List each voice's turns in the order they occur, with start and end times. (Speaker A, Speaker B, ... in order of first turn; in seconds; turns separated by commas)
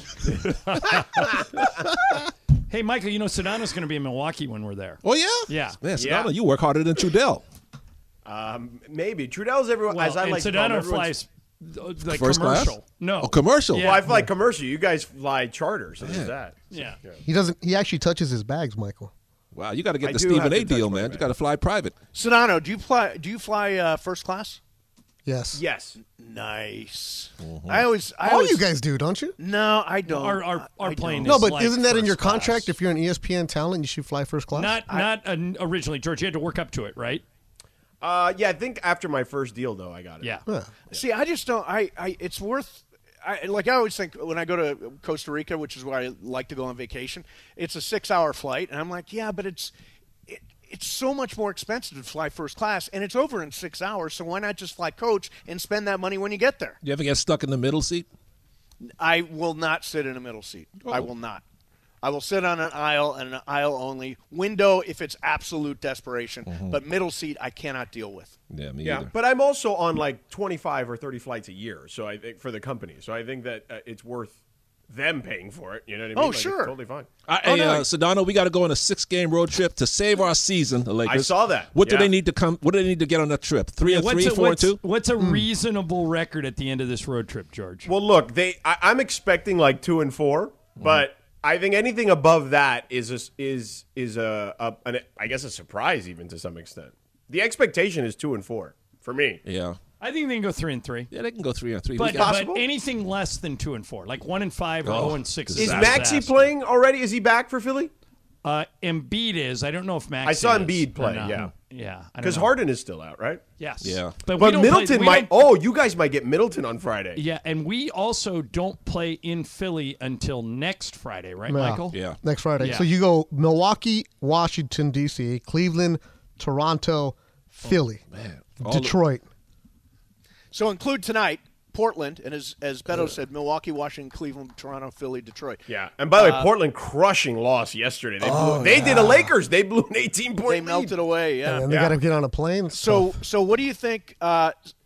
Speaker A: 1.2-1.6, Speaker B: 2.7-5.8, Speaker A: 5.0-7.4, Speaker C: 5.9-6.3, Speaker C: 8.2-11.1, Speaker B: 9.9-14.1, Speaker A: 12.0-14.0, Speaker C: 13.7-17.2, Speaker A: 16.0-16.3, Speaker B: 16.7-17.0, Speaker D: 17.2-19.1, Speaker A: 19.5-21.9, Speaker C: 20.0-21.2, Speaker E: 22.1-24.6, Speaker D: 25.2-25.6, Speaker C: 25.5-26.0, Speaker E: 26.0-28.6, Speaker A: 27.4-27.9, Speaker D: 28.2-29.4, Speaker E: 29.4-31.6, Speaker B: 30.1-32.7, Speaker D: 31.2-34.8, Speaker B: 34.5-37.2, Speaker C: 38.0-40.4, Speaker D: 40.5-40.7, Speaker E: 40.9-49.7, Speaker E: 50.3-56.8, Speaker A: 56.8-58.1, Speaker E: 59.0-61.4, Speaker E: 62.0-68.3, Speaker A: 66.5-66.8, Speaker A: 68.5-69.1, Speaker C: 68.8-74.3, Speaker C: 74.9-77.1, Speaker E: 76.1-76.8, Speaker A: 77.3-84.8, Speaker C: 81.0-82.1, Speaker B: 83.8-87.9, Speaker D: 85.2-85.5, Speaker C: 87.8-99.4, Speaker A: 90.8-91.0, Speaker A: 99.4-99.8, Speaker B: 100.0-101.1, Speaker A: 101.1-102.4, Speaker B: 102.0-106.5, Speaker C: 102.0-102.6, Speaker A: 104.8-106.2, Speaker C: 105.6-107.9, Speaker B: 108.4-112.5, Speaker C: 110.2-111.5, Speaker C: 112.2-113.4, Speaker B: 113.6-115.4, Speaker A: 113.8-114.3, Speaker C: 114.3-117.2, Speaker B: 117.2-122.0, Speaker D: 121.5-128.0, Speaker A: 121.9-122.2, Speaker B: 122.6-122.9, Speaker A: 127.6-129.0, Speaker D: 128.6-129.2, Speaker E: 130.5-135.6, Speaker C: 135.7-140.9, Speaker E: 136.1-136.5, Speaker D: 138.2-139.3, Speaker E: 140.5-141.9, Speaker D: 141.4-143.2, Speaker E: 142.7-144.5